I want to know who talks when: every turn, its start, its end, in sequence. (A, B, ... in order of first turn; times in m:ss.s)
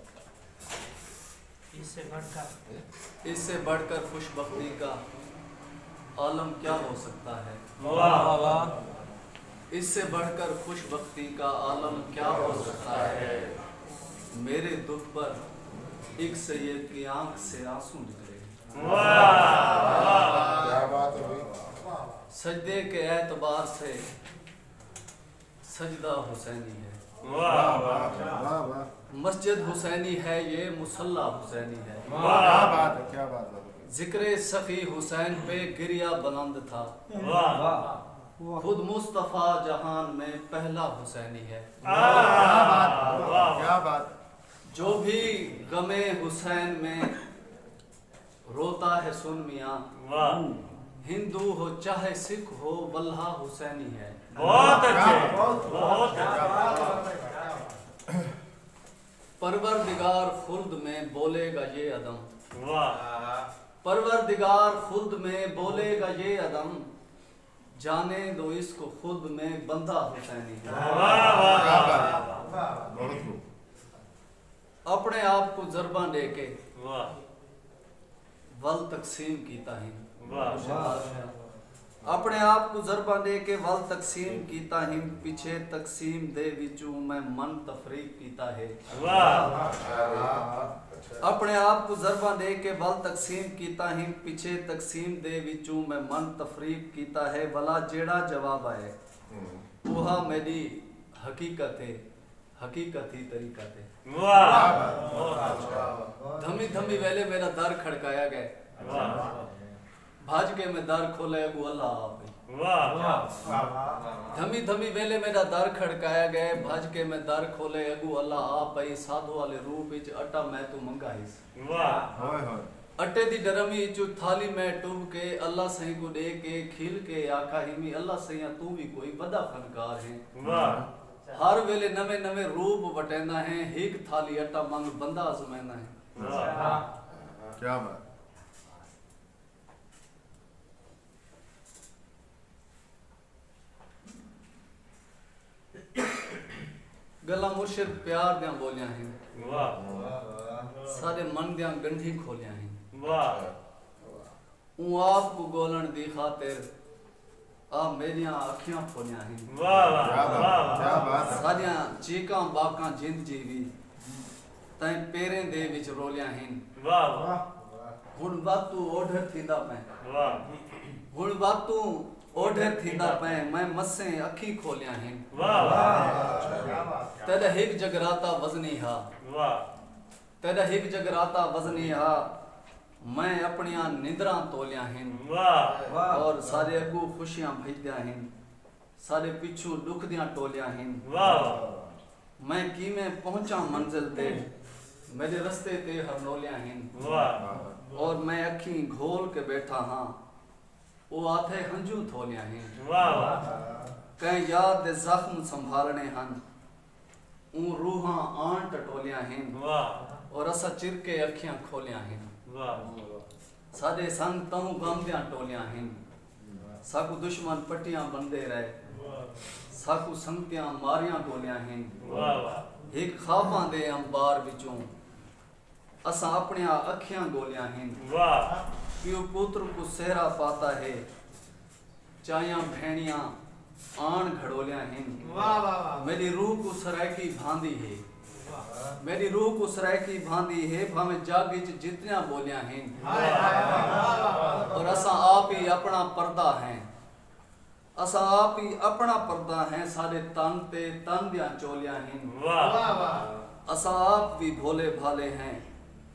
0:01.8-0:02.4 A
0:03.2-0:05.0 B
0:06.2-0:07.6 B
0:07.9-0:08.3 C
0:08.0-0:08.7 A
0:09.7-0:13.5 B
0:14.3-0:15.4 B
0:16.2-0:20.5 B
0:20.0-0:21.5 D
0:22.3-0:24.1 B
0:25.6-0:27.0 B
0:27.3-0:27.8 C
0:27.4-0:28.9 D
0:29.1-0:32.7 B
0:32.4-0:33.9 D
0:33.8-0:37.2 B
0:37.2-0:37.6 C
0:37.6-0:37.9 A
0:38.4-0:42.6 B
0:42.2-0:44.2 D
0:42.8-0:43.3 C
0:44.7-0:47.2 B
0:48.4-0:54.8 B
0:50.1-0:50.4 C
0:54.4-0:57.0 D
0:54.7-0:56.1 C
0:56.5-0:57.7 A
0:59.4-1:02.3 B
1:02.6-1:03.0 C
1:03.1-1:03.4 A
1:03.8-1:06.9 B
1:07.7-1:11.5 B
1:11.4-1:13.4 D
1:14.9-1:16.6 B
1:16.8-1:17.1 C
1:18.5-1:21.3 B
1:22.0-1:29.5 B
1:29.0-1:29.3 C
1:29.7-1:30.9 D
1:31.2-1:38.9 B
1:39.3-1:39.6 D
1:39.8-1:42.0 B
1:42.6-1:43.9 B
1:44.2-1:44.8 C
1:44.3-1:46.0 D
1:46.3-1:49.0 B
1:48.8-1:49.2 C
1:50.2-1:52.4 B
1:52.5-1:53.2 C
1:53.1-1:53.9 A
1:54.2-2:01.4 B
2:01.6-2:02.0 C
2:02.1-2:02.7 D
2:03.0-2:10.3 B
2:10.4-2:10.9 D
2:11.3-2:16.0 B
2:16.2-2:16.7 C
2:16.2-2:16.5 D
2:17.3-2:18.0 D
2:27.2-2:29.2 B
2:29.4-2:29.8 C
2:29.8-2:30.1 D
2:30.7-2:32.8 B
2:32.9-2:33.4 C
2:34.8-2:36.7 B
2:37.7-2:43.7 B
2:39.7-2:40.7 C
2:39.8-2:41.4 D
2:44.8-2:46.6 B
2:46.8-2:47.4 C
2:48.1-2:49.9 B
2:50.1-2:50.4 C
2:50.8-2:56.1 B
2:55.4-2:55.8 C
2:56.2-2:56.8 D
2:57.2-2:59.1 B
2:59.3-2:59.6 C
3:00.4-3:02.3 B
3:03.0-3:05.2 B
3:05.9-3:08.3 B
3:09.0-3:11.3 B
3:11.2-3:11.6 C
3:11.4-3:11.9 D
3:12.4-3:14.5 B
3:15.0-3:17.1 B
3:17.0-3:17.4 C
3:17.3-3:17.8 D
3:17.8-3:20.2 B
3:21.1-3:23.2 B
3:22.8-3:23.4 C
3:24.2-3:26.4 B
3:27.5-3:32.3 B
3:32.5-3:32.8 C
3:32.8-3:33.1 D
3:33.7-3:36.0 B
3:36.8-3:38.8 B
3:39.7-3:44.9 B
3:42.1-3:42.6 C
3:46.0-3:48.2 B
3:49.0-3:51.1 B
3:52.2-3:53.4 B
3:53.9-3:58.0 B
3:58.9-4:04.0 B
4:03.5-4:04.5 A
4:04.5-4:06.9 B
4:08.0-4:12.7 B
4:12.5-4:12.8 C
4:12.9-4:13.2 A
4:13.6-4:15.6 B